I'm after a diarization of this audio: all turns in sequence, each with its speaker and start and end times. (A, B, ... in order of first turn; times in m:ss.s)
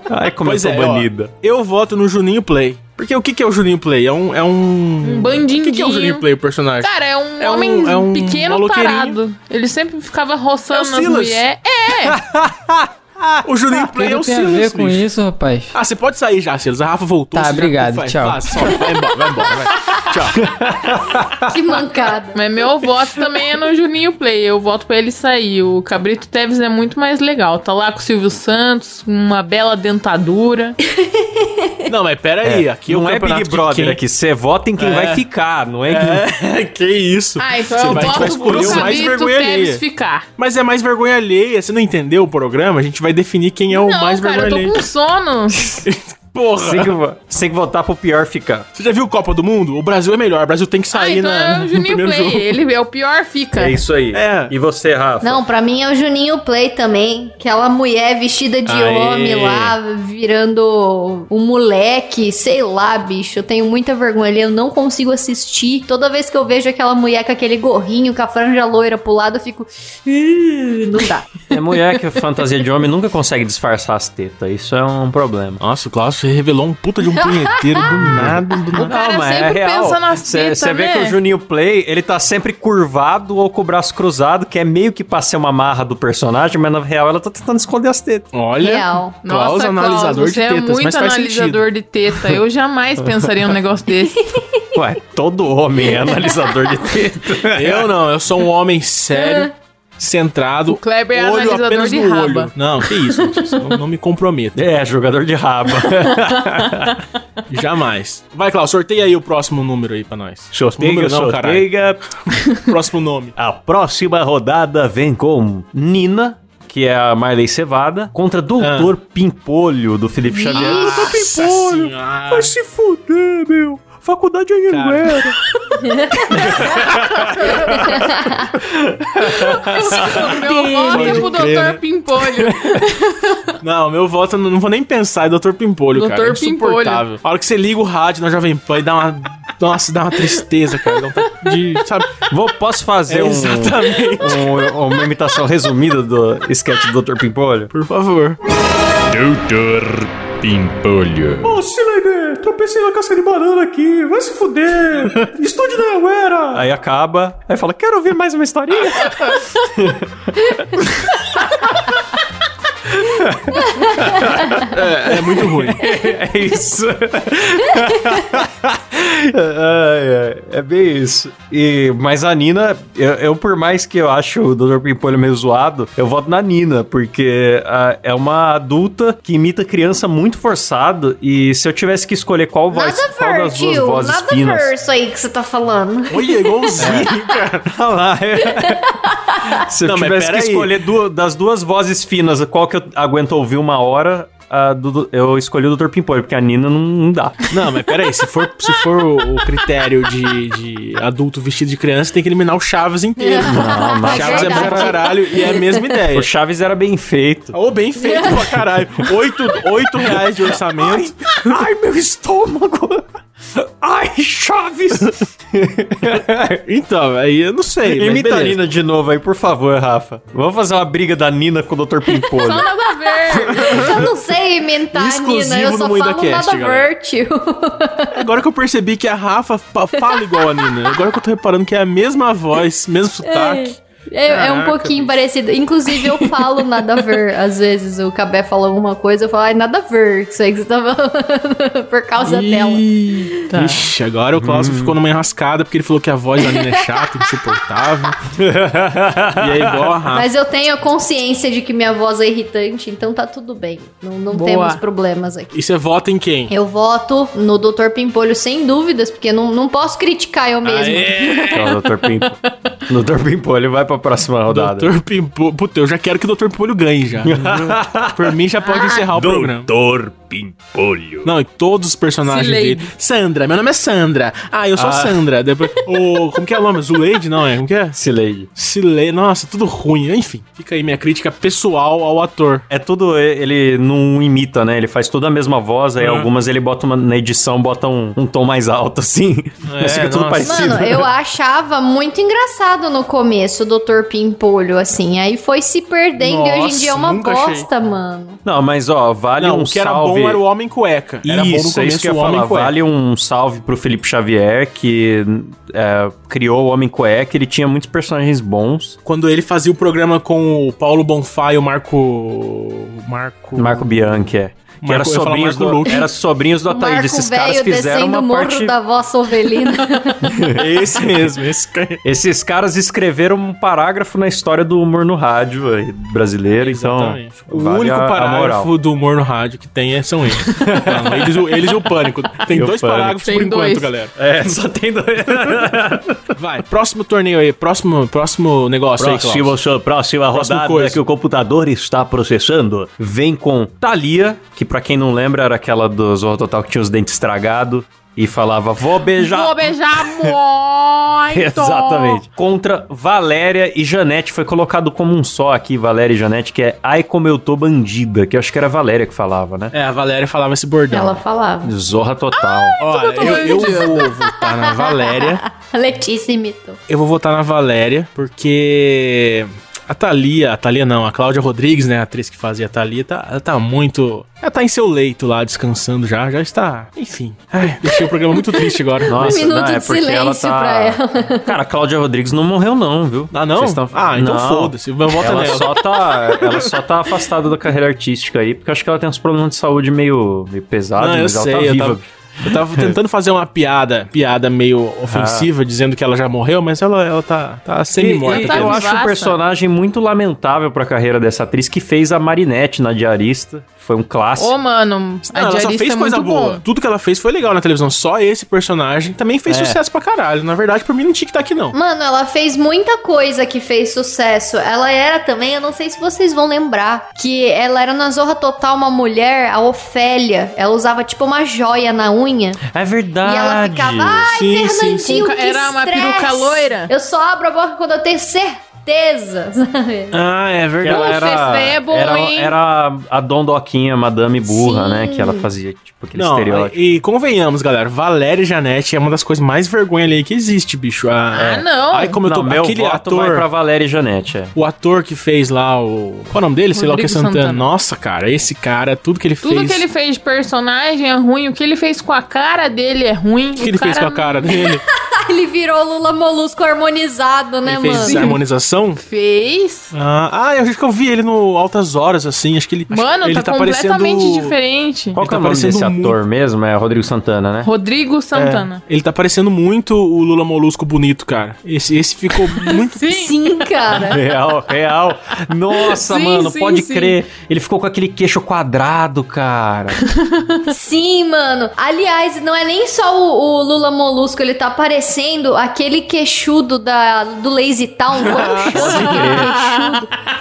0:00.1-0:01.3 A
0:00.4-0:09.2 B
0:05.0-0:06.2 C
0:06.8-0:12.2 C
0:10.7-0:11.4 B
0:12.1-0:13.7 A
0:13.4-0:15.0 B
0:13.9-0:15.7 D
0:15.7-0:20.4 B
0:17.3-0:18.8 D
0:20.3-0:21.5 A
0:21.4-0:22.4 E
0:22.3-0:30.8 C
0:31.0-0:31.9 E
0:31.9-0:34.0 B
0:32.4-0:36.2 A
0:34.8-0:35.2 B
0:35.9-0:39.8 B
0:37.4-0:40.3 C
0:37.8-0:39.1 A
0:40.4-0:44.8 B
0:43.7-0:45.8 C
0:45.8-0:46.9 B
0:46.6-0:48.7 A
0:48.7-0:52.6 B
0:50.9-0:53.8 C
0:53.6-0:55.4 A
0:54.1-0:54.5 B
0:55.2-1:11.4 E
0:58.6-0:59.7 B
1:11.5-1:15.6 A
1:15.6-1:18.9 B
1:17.8-1:28.3 A
1:18.8-1:21.2 C
1:28.3-1:31.6 B
1:28.6-1:29.1 E
1:29.2-1:34.4 C
1:34.7-1:37.9 A
1:37.5-1:44.6 B
1:40.7-1:42.5 C
1:44.5-1:47.0 A
1:47.5-1:51.7 B
1:50.7-1:52.0 A
1:52.4-1:53.3 B
1:53.4-2:05.4 A
1:58.6-1:58.9 B
2:00.3-2:01.2 E
2:00.4-2:02.5 B
2:04.7-2:05.3 B
2:05.8-2:08.5 E
2:06.1-2:10.4 A
2:09.7-2:11.3 E
2:09.7-2:13.6 C
2:10.9-2:11.8 B
2:12.2-2:12.9 A
2:13.6-2:22.3 B
2:15.9-2:17.0 C
2:22.3-2:27.7 A
2:23.1-2:24.7 B
2:27.7-2:28.4 B
2:28.9-2:42.2 A
2:42.8-3:04.7 A
2:44.6-2:45.8 B
3:02.7-3:07.1 E
3:06.1-3:07.7 B
3:06.8-3:07.1 A
3:07.6-3:17.4 A
3:08.6-3:09.5 E
3:09.8-3:10.7 B
3:17.5-3:26.3 B
3:23.2-3:25.8 E
3:23.4-3:25.0 A
3:26.1-3:27.6 A
3:27.5-3:31.6 B
3:28.0-3:28.4 E
3:30.2-3:36.6 A
3:36.7-3:38.6 B
3:37.8-3:42.7 A
3:42.3-3:43.8 C
3:43.5-3:48.2 E
3:43.6-3:44.0 A
3:43.6-3:44.1 B
3:44.9-3:46.9 B
3:48.1-3:55.2 B
3:50.0-3:50.8 E
3:53.2-4:03.5 E
4:02.2-4:02.7 B
4:02.7-4:03.9 C
4:03.5-4:08.2 B
4:04.3-4:05.0 A
4:08.3-4:10.0 A
4:09.4-4:10.3 B
4:10.1-4:15.5 E
4:14.3-4:14.8 C
4:15.5-4:16.5 B
4:16.5-4:21.6 E
4:20.6-4:21.7 B
4:21.5-4:24.9 A
4:24.5-4:29.7 B
4:27.2-4:28.4 A
4:28.6-4:29.0 C
4:29.1-4:31.3 A
4:31.2-4:38.0 B
4:32.2-4:32.9 C
4:34.7-4:35.2 A
4:37.9-4:38.5 A
4:38.5-4:42.6 B
4:42.7-4:51.1 A
4:46.0-4:46.3 B
4:49.6-4:50.8 B
4:50.4-4:58.4 E
4:56.2-4:57.7 B
4:58.4-5:00.4 A
4:59.4-5:02.7 B
5:01.2-5:09.0 A
5:09.0-5:14.3 B
5:13.6-5:18.7 A
5:14.8-5:16.0 B
5:16.7-5:20.3 E
5:20.2-5:21.3 A
5:20.4-5:22.0 B
5:22.0-5:28.7 A
5:26.6-5:34.1 B
5:30.4-5:31.6 A
5:32.5-5:33.2 A
5:33.2-5:33.9 C
5:34.2-5:36.2 A
5:36.4-5:39.5 B
5:39.0-5:50.4 A
5:40.3-5:41.0 B
5:49.2-5:52.2 C
5:51.3-5:59.7 A
5:59.7-6:01.2 B
6:00.9-6:01.7 E
6:01.6-6:02.8 A
6:02.8-6:05.4 B
6:02.9-6:06.8 E
6:02.9-6:04.1 C
6:06.9-6:19.4 B
6:17.8-6:21.5 E
6:19.1-6:33.0 A
6:23.3-6:26.7 B
6:31.0-6:38.8 B
6:35.0-6:35.5 A
6:38.0-6:44.5 A
6:38.2-6:39.4 C
6:44.4-6:46.6 C
6:45.3-6:51.8 B
6:49.5-6:49.8 A
6:51.7-7:02.6 E
7:02.7-7:04.3 A
7:03.2-7:10.2 E
7:04.3-7:05.1 B
7:05.0-7:06.9 C
7:10.1-7:11.3 B
7:10.8-7:16.8 A
7:10.8-7:12.5 C
7:14.4-7:15.5 E
7:16.2-7:23.4 B
7:21.3-7:22.2 C
7:21.4-7:21.6 A
7:22.2-7:24.5 A
7:24.5-7:29.8 B
7:26.7-7:27.7 C
7:29.4-7:34.5 C
7:33.6-7:34.8 B
7:34.9-7:38.3 E
7:37.6-7:39.0 B
7:38.0-7:38.4 C
7:39.0-7:39.9 C
7:39.9-7:44.5 B
7:42.9-7:45.2 C
7:45.2-7:47.7 A
7:45.2-7:46.2 B
7:47.6-7:48.8 C
7:48.3-7:53.2 B
7:52.5-7:53.3 C
7:53.0-7:54.2 E
7:53.9-8:00.0 A
7:55.8-7:57.2 C
8:00.7-8:10.1 E
8:08.2-8:09.3 B
8:08.6-8:09.7 A
8:09.3-8:09.6 C